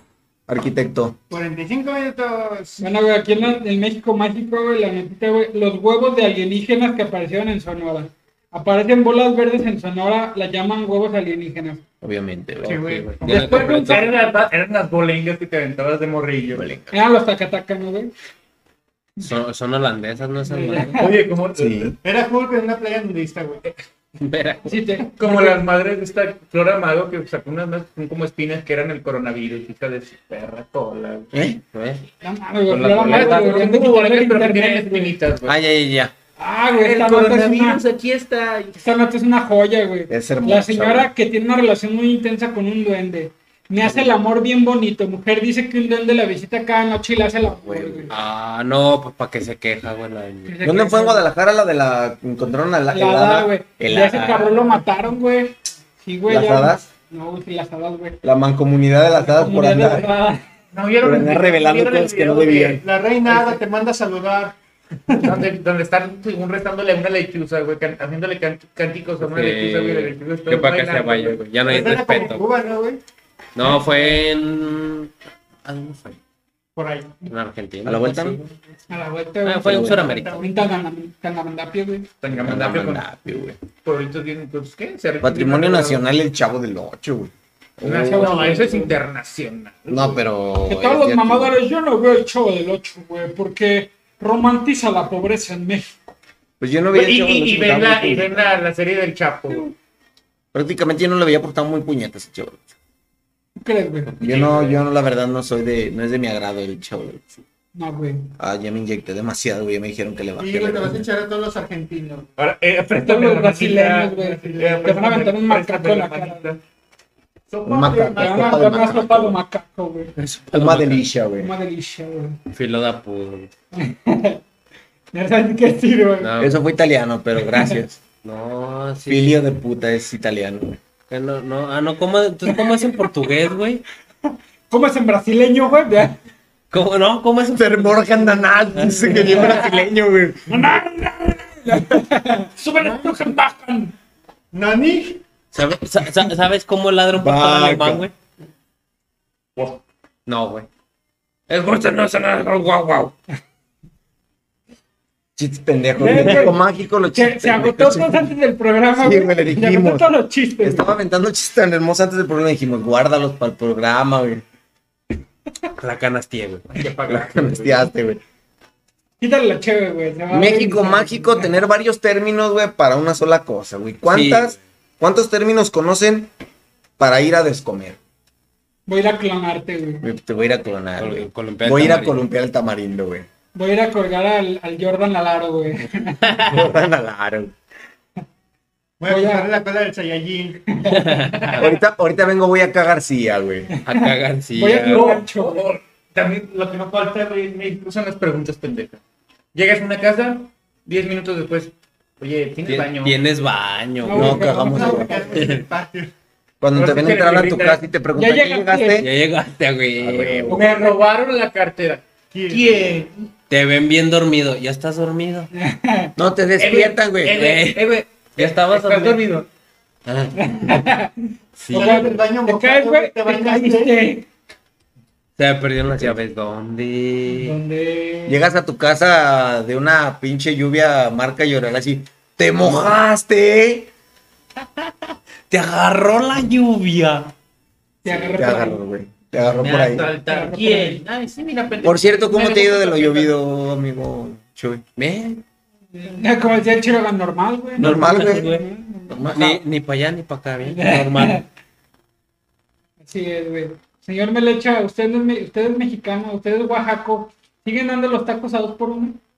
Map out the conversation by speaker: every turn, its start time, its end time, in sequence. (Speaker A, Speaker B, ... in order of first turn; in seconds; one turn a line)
Speaker A: 0.5-1.2
Speaker B: 1.3-2.9
Speaker C: 2.8-11.8
Speaker A: 12.0-13.1
Speaker B: 12.6-13.8
Speaker D: 12.7-14.2
Speaker E: 13.2-16.6
Speaker C: 13.2-14.1
Speaker A: 16.5-16.9
Speaker C: 16.9-18.1
Speaker D: 19.2-21.1
Speaker C: 20.4-21.1
Speaker E: 20.9-21.9
Speaker A: 21.5-21.9
Speaker B: 22.0-23.6
Speaker D: 24.2-24.8
Speaker C: 24.6-25.6
Speaker E: 25.1-31.3
Speaker A: 31.3-31.6
Speaker D: 31.7-32.0
Speaker C: 32.2-35.1
Speaker D: 32.7-33.7
Speaker E: 32.7-35.5
Speaker A: 35.5-36.1
Speaker C: 36.4-37.8
Speaker E: 36.7-38.8
Speaker C: 38.8-48.1
Speaker A: 40.1-41.1
Speaker A: 47.6-48.1
Speaker D: 48.1-50.6
Speaker C: 50.5-51.2
Speaker A: 50.6-54.5
Speaker C: 52.9-58.2
Speaker A: 56.3-56.9
Speaker A: 58.2-60.1
Speaker C: 59.2-60.4
Speaker E: 60.7-63.6
Speaker A: 61.0-62.8
Speaker B: 62.8-64.5
Speaker B: 65.1-65.4
Speaker E: 65.2-71.7
Speaker D: 69.2-72.4
Speaker B: 71.7-73.0
Speaker D: 73.5-75.1
Speaker C: 73.6-74.3
Speaker D: 75.6-76.2
Speaker B: 76.8-77.3
Speaker D: 77.3-78.5
Speaker A: 77.8-78.4
Speaker C: 78.9-82.1
Speaker D: 79.4-80.4
Speaker A: 79.6-80.1
Speaker B: 79.8-80.5
Speaker E: 82.2-83.0
Speaker A: 82.3-83.6
Speaker E: 83.8-86.0
Speaker A: 85.2-88.5
Speaker E: 87.8-90.2
Speaker C: 87.8-88.9
Speaker A: 89.9-91.6
Speaker C: 90.7-96.0
Speaker A: 96.6-98.6
Speaker E: 96.9-99.7
Speaker A: 100.5-102.6
Speaker C: 103.6-104.1
Speaker A: 104.2-107.4
Speaker E: 104.2-104.8
Speaker C: 107.7-108.3
Speaker A: 108.4-111.1
Speaker B: 110.4-112.3
Speaker E: 112.4-116.6
Speaker C: 113.0-116.5
Speaker B: 114.1-115.0
Speaker B: 117.5-118.8
Speaker A: 117.7-119.4
Speaker C: 118.2-120.1
Speaker D: 120.2-121.1
Speaker A: 120.5-121.5
Speaker C: 121.4-122.4
Speaker D: 122.5-123.5
Speaker C: 123.7-124.4
Speaker C: 125.1-126.3
Speaker D: 126.2-126.6
Speaker A: 126.4-128.0
Speaker D: 128.2-129.4
Speaker A: 129.1-130.8
Speaker D: 131.1-133.8
Speaker C: 134.7-136.2
Speaker D: 136.7-138.1
Speaker A: 137.5-140.7
Speaker D: 138.8-139.6
Speaker C: 139.0-139.7
Speaker C: 140.5-143.9
Speaker B: 142.8-143.2
Speaker B: 144.5-145.2
Speaker D: 145.5-148.1
Speaker A: 147.1-148.1
Speaker D: 150.2-150.7
Speaker D: 151.5-153.1
Speaker A: 155.4-158.3
Speaker C: 156.0-160.9
Speaker A: 159.0-164.4
Speaker D: 165.8-166.7
Speaker E: 166.7-167.9
Speaker A: 167.1-168.2
Speaker C: 169.2-171.6
Speaker A: 170.3-176.3
Speaker D: 174.1-174.6
Speaker A: 177.0-178.0
Speaker C: 178.9-180.0
Speaker A: 180.0-183.3
Speaker D: 181.0-182.2
Speaker C: 183.5-186.3
Speaker D: 186.2-186.7
Speaker A: 186.4-187.5
Speaker B: 189.0-190.7
Speaker C: 189.1-189.5
Speaker C: 190.7-191.3
Speaker D: 190.8-191.7
Speaker E: 191.4-191.7
Speaker A: 191.6-193.7
Speaker C: 193.7-195.6
Speaker D: 193.8-195.2
Speaker E: 194.8-199.0
Speaker E: 199.5-203.2
Speaker D: 202.7-204.6
Speaker C: 204.0-205.3
Speaker A: 204.1-205.5
Speaker B: 204.4-206.1
Speaker D: 205.3-205.6
Speaker A: 206.6-209.1
Speaker E: 206.7-207.8
Speaker C: 208.1-209.0
Speaker D: 209.0-210.6
Speaker A: 210.0-210.7
Speaker E: 210.5-213.1
Speaker B: 212.3-212.9
Speaker D: 213.5-215.5
Speaker C: 215.5-216.1
Speaker A: 216.2-217.4
Speaker E: 216.6-219.5
Speaker D: 217.3-219.2
Speaker D: 220.1-220.8
Speaker C: 220.3-221.2
Speaker D: 221.6-222.1
Speaker B: 221.7-224.0
Speaker C: 221.7-224.3
Speaker D: 225.4-227.6
Speaker A: 225.9-226.2
Speaker C: 227.3-228.4
Speaker A: 228.2-233.9
Speaker D: 232.6-233.0
Speaker D: 235.5-237.3
Speaker C: 238.0-238.8
Speaker A: 238.1-240.1
Speaker E: 239.6-243.3
Speaker C: 240.1-241.0
Speaker A: 241.8-244.8
Speaker D: 245.0-245.4
Speaker C: 245.9-249.3
Speaker A: 247.8-248.5
Speaker D: 247.8-248.6
Speaker A: 249.1-249.6
Speaker D: 249.3-251.4
Speaker C: 250.6-251.4
Speaker C: 253.0-259.2